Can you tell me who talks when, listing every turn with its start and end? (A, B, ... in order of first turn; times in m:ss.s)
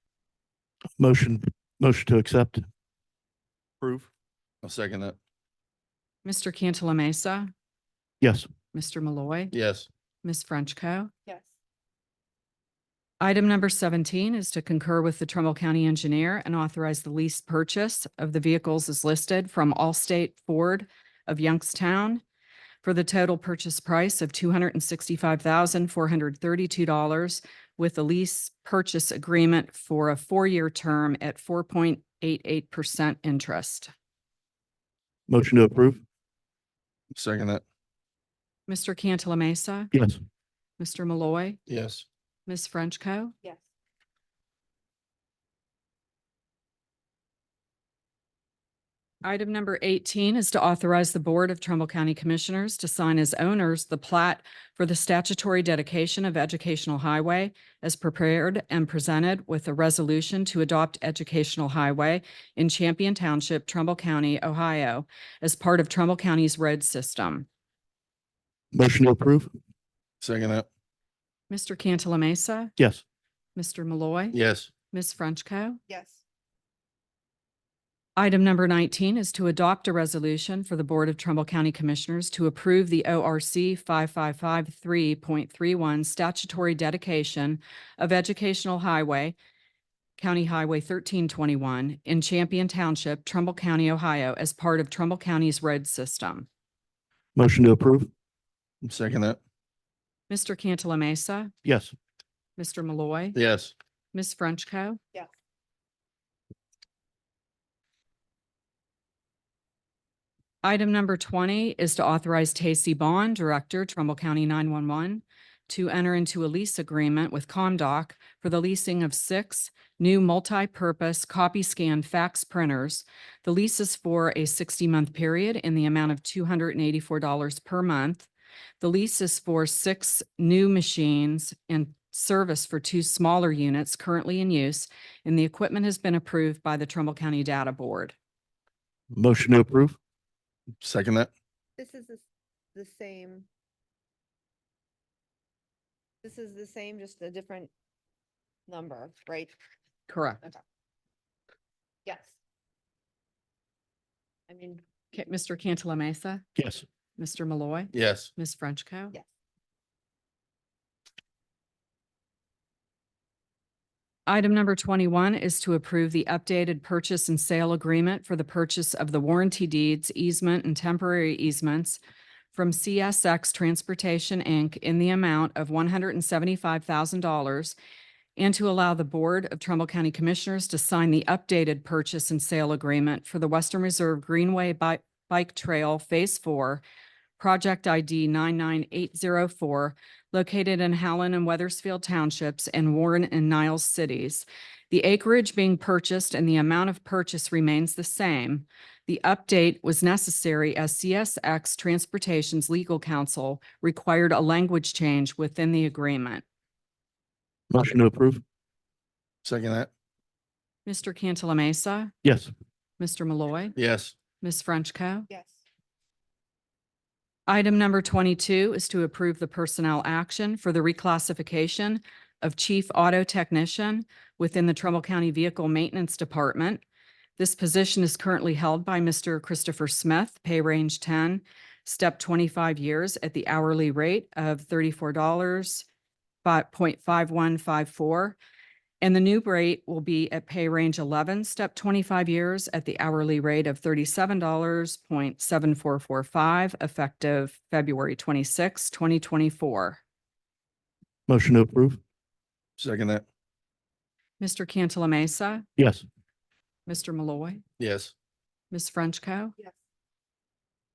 0:01.0-0:02.6 A
0:03.8-0:04.1 A
0:04.6-0:05.2 B
0:06.2-0:07.5 C
0:08.2-0:08.5 A
0:08.7-0:09.5 C
0:09.5-0:09.9 B
0:10.2-0:11.1 C
0:13.2-0:22.2 C
0:22.8-0:33.9 C
0:35.3-0:36.0 A
0:37.1-0:37.6 B
0:38.7-0:39.9 C
0:40.8-0:41.6 C
0:41.7-0:42.1 B
0:42.5-0:43.4 C
0:49.2-1:07.5 C
1:08.7-1:09.5 A
1:10.2-1:10.7 B
1:11.5-1:12.7 C
1:13.6-1:14.4 C
1:14.3-1:14.7 B
1:14.9-1:15.8 C
1:15.9-1:16.2 D
1:18.2-1:29.4 C
1:30.2-1:36.5 C
1:37.4-1:38.1 A
1:38.8-1:39.4 B
1:40.3-1:41.5 C
1:41.6-1:41.9 A
1:42.6-1:43.4 C
1:43.4-1:43.7 B
1:44.1-1:45.0 C
1:50.6-2:08.3 C
2:08.8-2:18.2 C
2:19.1-2:20.0 A
2:20.8-2:21.3 B
2:21.8-2:22.2 D
2:22.8-2:23.5 D
2:26.2-2:27.7 D
2:28.7-2:29.6 D
2:30.1-2:30.5 C
2:32.1-2:32.3 D
2:34.5-2:34.8 D
2:35.1-2:36.5 C
2:36.6-2:36.8 A
2:37.2-2:39.2 C
2:37.9-2:38.3 B
2:44.3-2:52.0 C
2:52.5-2:57.8 C
2:58.4-3:06.8 C
3:07.4-3:26.4 C
3:27.7-3:28.4 A
3:29.4-3:29.9 B
3:30.9-3:32.1 C
3:32.2-3:32.5 A
3:33.0-3:33.8 C
3:33.8-3:34.2 B
3:34.4-3:35.3 C
3:35.3-3:35.6 D
3:37.5-3:46.8 C
3:47.4-3:55.9 C
3:56.4-3:58.4 C
3:59.0-4:10.0 C
4:11.3-4:12.0 A
4:12.8-4:13.2 B
4:14.4-4:15.7 C
4:15.8-4:16.0 A
4:16.9-4:17.6 C
4:17.8-4:18.1 B
4:18.7-4:19.6 C